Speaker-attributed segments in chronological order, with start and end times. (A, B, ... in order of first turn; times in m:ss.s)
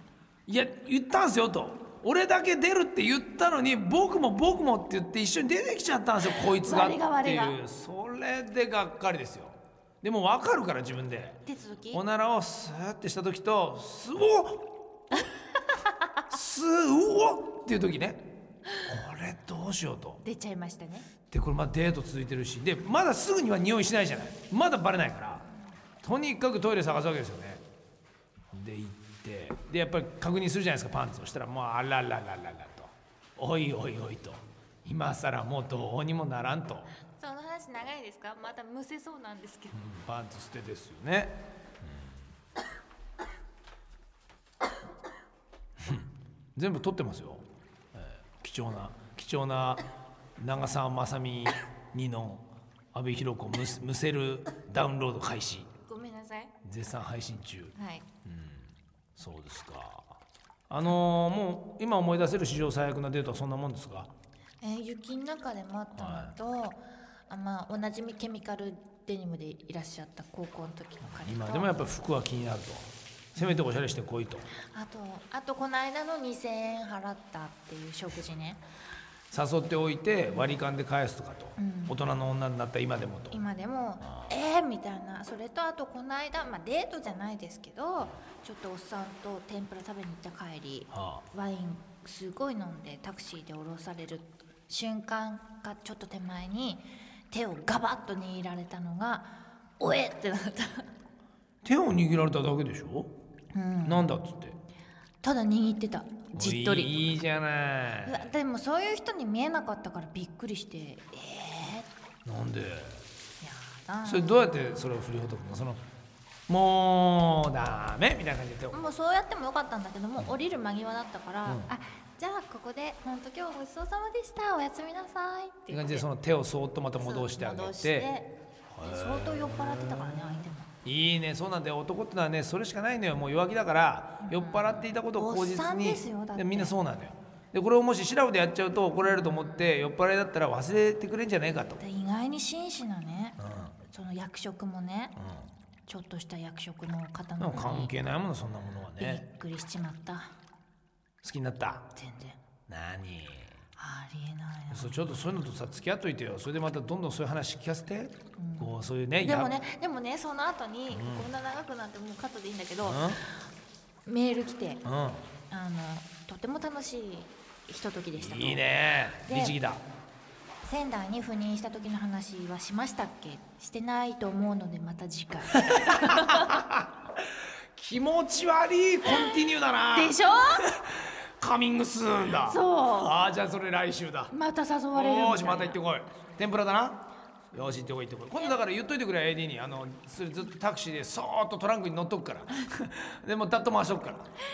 0:00.5-0:11.4 A
0:06.2-0:07.6 B
0:11.4-0:12.0 B
0:11.9-0:14.7 A
0:16.3-0:18.2 A
0:18.8-0:20.2 A
0:20.2-0:21.1 B
0:21.3-0:25.4 A
0:26.0-0:27.6 A
0:28.5-0:36.9 A
0:37.1-0:39.8 B
0:39.7-0:42.2 A
0:45.8-0:49.8 A
0:50.4-0:55.7 A
0:55.8-0:56.5 B
0:56.6-1:00.2 A
0:57.7-0:58.0 B
1:00.7-1:04.1 A
1:04.6-1:11.9 B
1:05.9-1:06.3 A
1:11.1-1:14.5 A
1:14.7-1:18.6 B
1:19.3-1:23.4 A
1:21.6-1:22.0 B
1:23.3-1:40.8 B
1:24.0-1:24.3 A
1:30.9-1:31.2 A
1:41.6-1:43.1 A
1:43.5-1:44.1 B
1:43.8-1:44.6 A
1:45.2-1:47.2 B
1:46.3-1:48.3 A
1:48.0-1:51.9 B
1:52.2-1:53.0 A
1:53.4-1:54.3 B
1:54.0-1:55.8 A
1:56.5-1:58.9 A
1:58.7-2:06.0 B
2:01.4-2:01.7 A
2:05.7-2:08.1 A
2:07.0-2:08.3 B
2:08.7-2:21.8 A
2:08.8-2:10.7 B
2:14.2-2:16.8 B
2:19.0-2:19.8 B
2:21.8-2:25.1 B
2:23.4-2:23.8 A
2:25.2-2:25.5 A
2:25.8-2:27.9 B
2:27.4-2:29.2 A
2:29.0-2:30.3 B
2:31.2-2:31.9 A
2:31.9-2:32.4 B
2:32.7-2:33.6 A
2:33.8-2:35.2 B
2:34.7-2:39.5 A
2:38.4-2:43.4 B
2:40.9-2:41.3 A
2:42.8-2:43.2 A
2:44.0-2:44.8 B
2:44.8-2:45.2 A
2:45.5-2:48.6 B
2:48.2-2:49.8 A
2:49.2-2:49.6 B
2:50.6-2:56.6 B
2:55.6-2:57.2 A
2:57.8-3:04.3 A
2:59.0-3:00.7 B
3:02.3-3:03.1 B
3:04.3-3:05.8 B
3:04.9-3:07.0 A
3:07.5-3:14.3 A